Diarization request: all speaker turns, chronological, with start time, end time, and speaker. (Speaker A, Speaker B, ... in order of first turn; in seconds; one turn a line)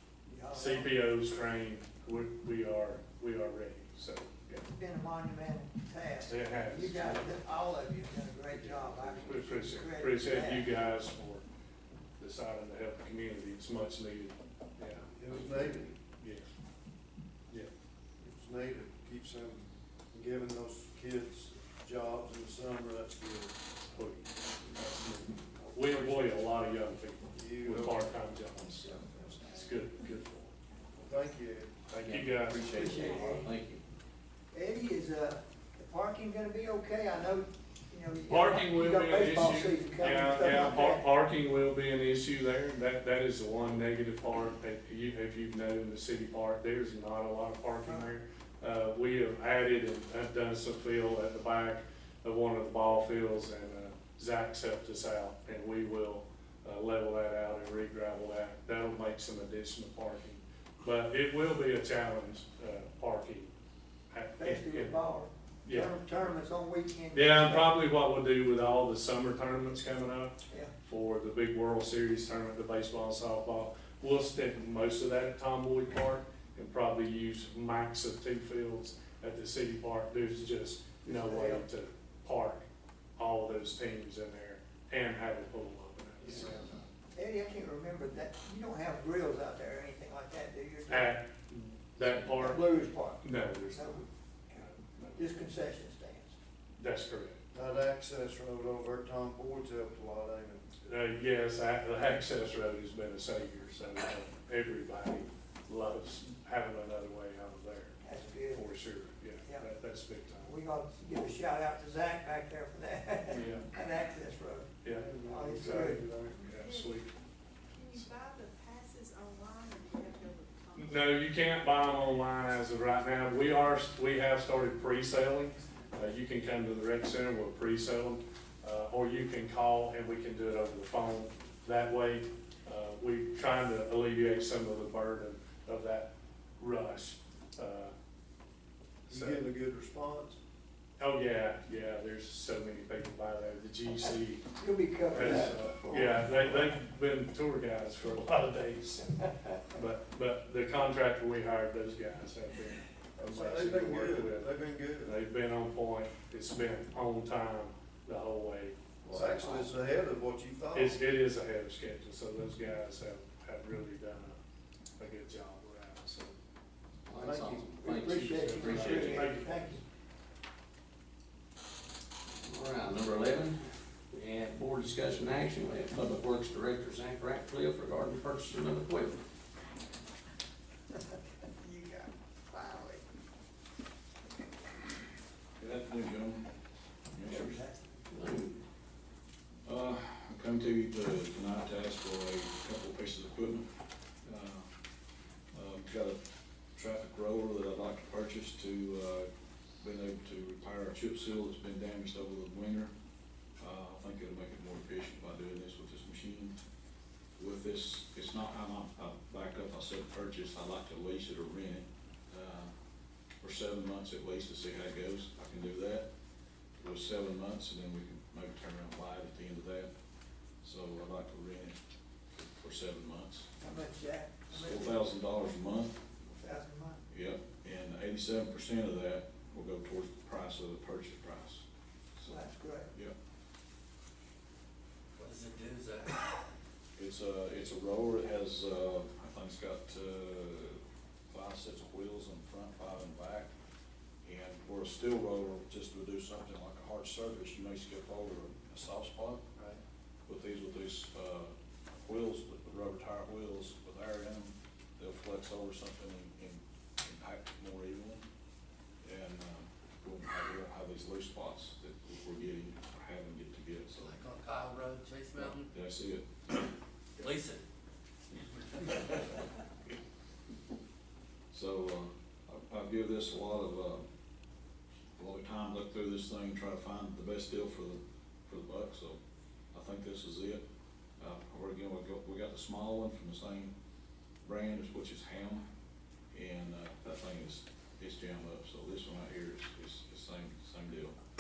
Speaker A: 0.3-1.0
Speaker B: 0.5-4.7
Speaker A: 4.7-10.7
Speaker B: 6.3-7.3
Speaker B: 8.6-11.4
Speaker B: 12.2-15.1
Speaker C: 15.1-15.9
Speaker B: 16.2-16.5
Speaker C: 18.2-23.6
Speaker B: 23.9-30.5
Speaker C: 27.3-28.1
Speaker C: 28.8-29.6
Speaker C: 31.0-31.8
Speaker B: 31.9-33.5
Speaker D: 32.0-33.8
Speaker A: 32.6-33.5
Speaker A: 34.5-41.0
Speaker B: 38.3-63.5
Speaker B: 64.1-65.0
Speaker A: 64.4-67.7
Speaker B: 65.7-65.9
Speaker B: 67.1-82.7
Speaker A: 81.0-81.6
Speaker B: 83.2-86.9
Speaker A: 87.1-91.2
Speaker B: 90.9-92.7
Speaker A: 92.0-96.4
Speaker B: 93.2-95.4
Speaker B: 96.8-97.4
Speaker C: 97.5-100.7
Speaker B: 100.8-108.0
Speaker A: 108.0-108.7
Speaker B: 108.5-110.5
Speaker A: 110.4-116.0
Speaker B: 113.3-113.7
Speaker B: 114.8-117.1
Speaker C: 114.9-116.5
Speaker E: 116.6-117.0
Speaker E: 117.7-121.0
Speaker B: 120.8-137.9
Speaker B: 139.1-139.4
Speaker C: 139.1-140.4
Speaker B: 141.0-144.5
Speaker A: 144.6-146.7
Speaker B: 145.1-154.5
Speaker C: 153.2-155.2
Speaker B: 155.0-158.8
Speaker C: 159.1-161.0
Speaker D: 159.1-159.7
Speaker B: 160.7-164.4
Speaker B: 165.0-166.4
Speaker D: 167.1-169.3
Speaker C: 167.2-169.2
Speaker A: 167.8-169.8
Speaker B: 168.8-169.8
Speaker D: 172.4-179.2
Speaker A: 181.1-183.0
Speaker F: 185.6-186.5
Speaker F: 187.1-187.6
Speaker A: 187.3-188.2
Speaker D: 188.1-188.6
Speaker F: 189.7-193.7
Speaker F: 194.2-194.7
Speaker F: 195.5-196.2
Speaker F: 196.8-199.3
Speaker F: 199.8-202.9
Speaker F: 203.6-206.6
Speaker F: 207.4-212.7
Speaker F: 213.4-216.1
Speaker F: 216.8-219.9
Speaker F: 220.6-221.8
Speaker F: 222.6-223.5
Speaker A: 223.6-225.0
Speaker F: 224.5-226.0
Speaker A: 226.3-227.1
Speaker F: 227.1-231.6
Speaker A: 232.2-232.9
Speaker G: 235.2-236.3
Speaker F: 237.0-243.5
Speaker F: 244.2-249.4
Speaker F: 250.3-258.2
Speaker F: 259.0-264.2
Speaker G: 264.0-265.7
Speaker F: 265.4-266.7
Speaker G: 267.2-267.6
Speaker G: 268.8-269.1
Speaker F: 271.5-274.0
Speaker F: 275.2-279.2
Speaker F: 279.7-280.6
Speaker F: 281.2-283.7
Speaker F: 284.4-285.6
Speaker F: 286.3-291.2